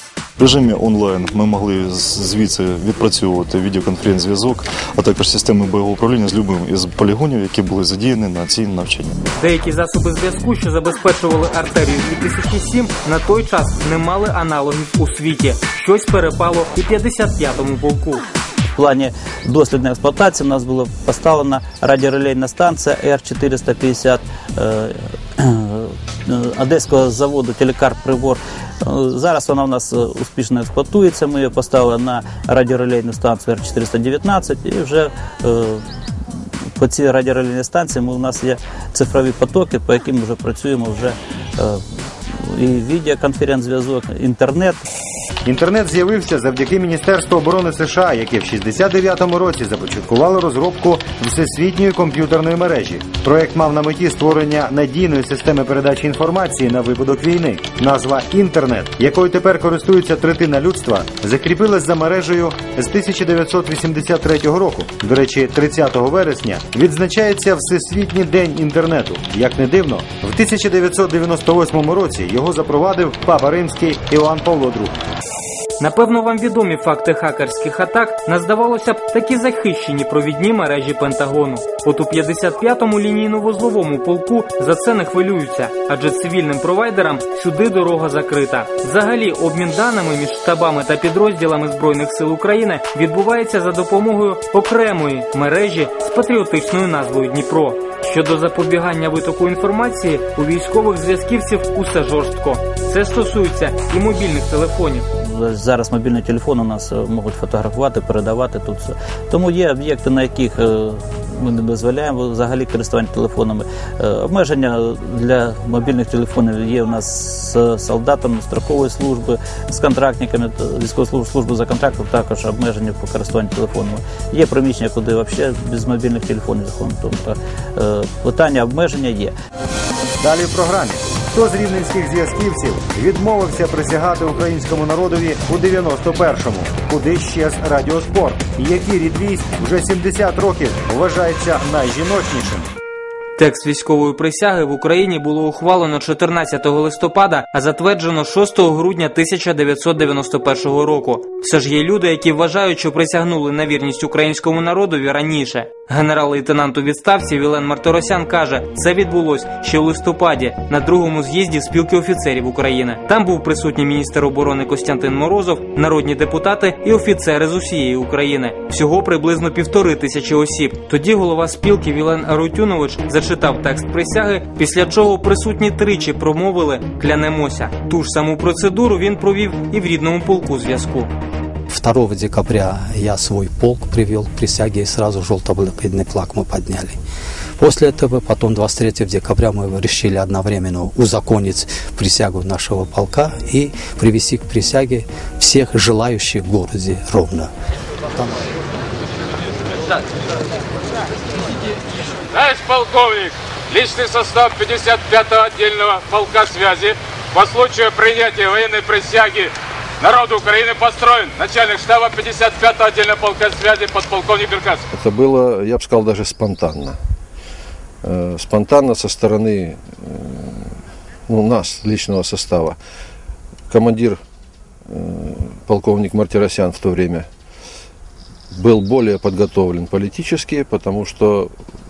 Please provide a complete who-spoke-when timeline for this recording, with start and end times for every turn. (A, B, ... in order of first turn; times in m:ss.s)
0:00.4-0:09.1 A
0:09.4-0:18.2 B
0:18.8-0:35.8 C
0:36.8-0:44.8 C
0:45.4-1:15.0 D
1:15.8-1:45.0 B
1:45.2-2:09.3 C
2:10.2-2:22.7 D
2:23.4-3:01.1 B
3:01.7-3:07.0 E
3:07.6-3:17.5 E
3:18.1-3:18.4 E
3:22.3-3:34.8 F
3:34.9-3:37.0 G
3:38.0-3:40.6 G
3:41.3-3:42.8 G
3:43.7-3:44.2 G
3:44.9-3:47.3 G
3:48.6-3:51.5 G